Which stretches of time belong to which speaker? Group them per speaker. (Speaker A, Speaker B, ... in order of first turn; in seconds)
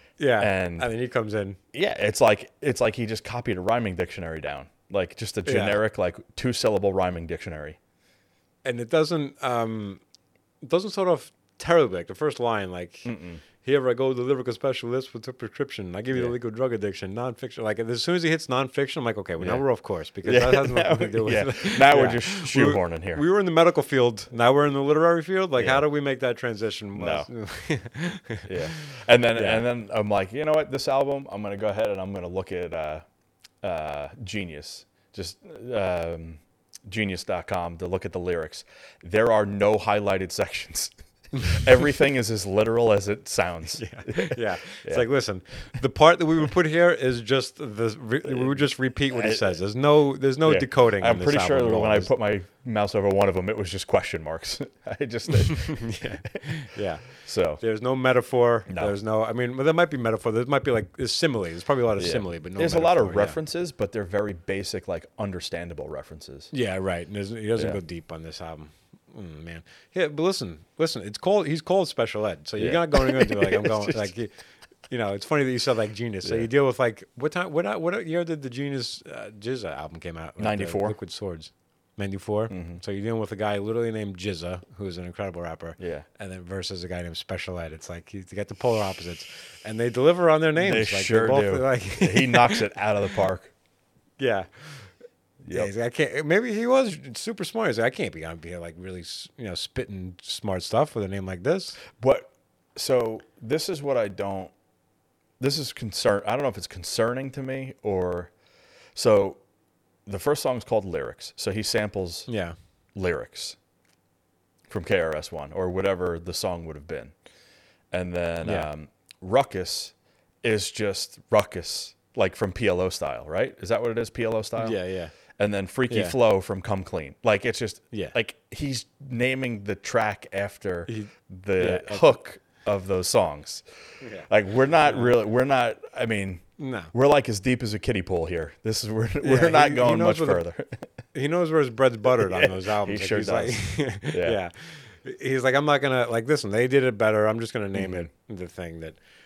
Speaker A: 0.2-1.6, 5.4-5.8, 8.6-10.0, 10.6-29.6, 43.8-52.1, 55.4-63.4, 66.5-74.3, 74.9-92.6, 94.2-94.9, 95.5-101.8, 112.3-112.5, 118.4-118.7, 124.6-125.1, 125.9-126.2, 130.9-132.1, 134.0-134.3, 134.8-135.1, 136.6-136.9, 139.2-140.4, 141.1-149.0
Speaker B: 0.3-0.9, 1.7-7.8, 13.0-13.4, 19.4-19.6, 20.2-23.2, 25.6-25.8, 26.9-27.3, 28.4-33.0, 33.6-45.1, 48.2-49.6, 50.4-55.9, 57.2-57.6, 58.7-58.9, 62.0-66.5, 72.6-74.1, 76.2-76.5, 80.4-81.0, 82.5-82.8, 85.8-86.0, 90.6-93.5, 95.4-95.7, 101.9-104.5, 105.4-108.3, 108.9-109.4, 110.0-112.3, 112.9-113.6, 114.7-117.1, 117.9-124.8, 125.3-133.6, 134.3-140.9, 142.2-144.4, 147.7-148.1